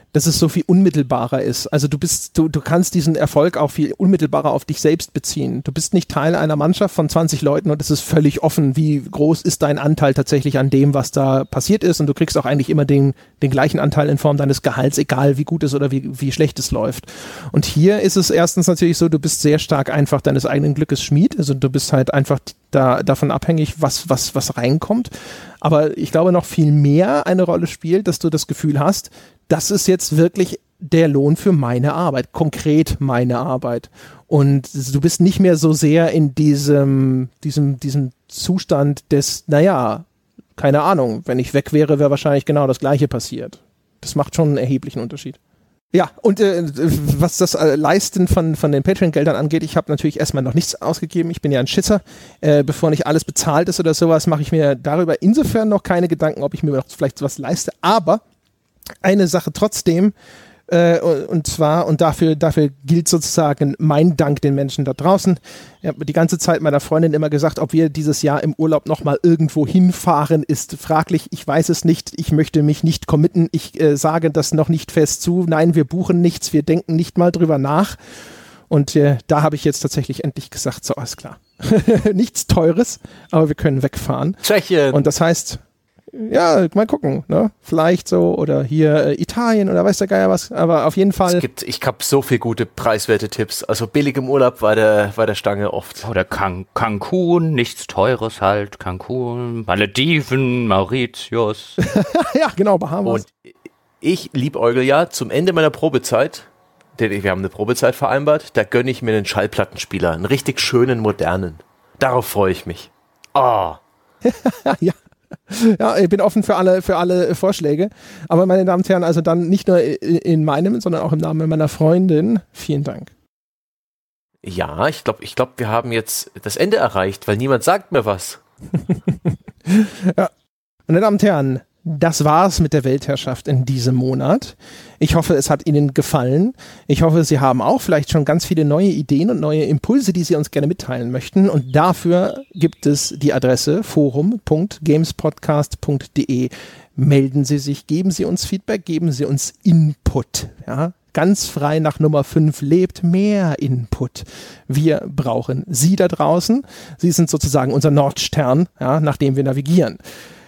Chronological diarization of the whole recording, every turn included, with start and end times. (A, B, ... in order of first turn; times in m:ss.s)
0:00.1-0:25.1 A
0:25.6-0:40.1 A
0:40.6-0:45.4 A
0:45.9-0:58.2 A
0:59.0-1:00.1 A
1:00.7-1:18.0 A
1:18.7-1:25.6 A
1:24.4-1:25.0 B
1:26.1-1:31.5 A
1:31.3-1:36.1 B
1:36.0-1:41.8 C
1:41.8-1:43.2 A
1:43.0-1:53.8 B
1:54.2-1:55.0 A
1:55.5-2:03.1 A
2:04.4-2:08.4 B
2:09.7-2:10.3 A
2:10.9-2:40.0 A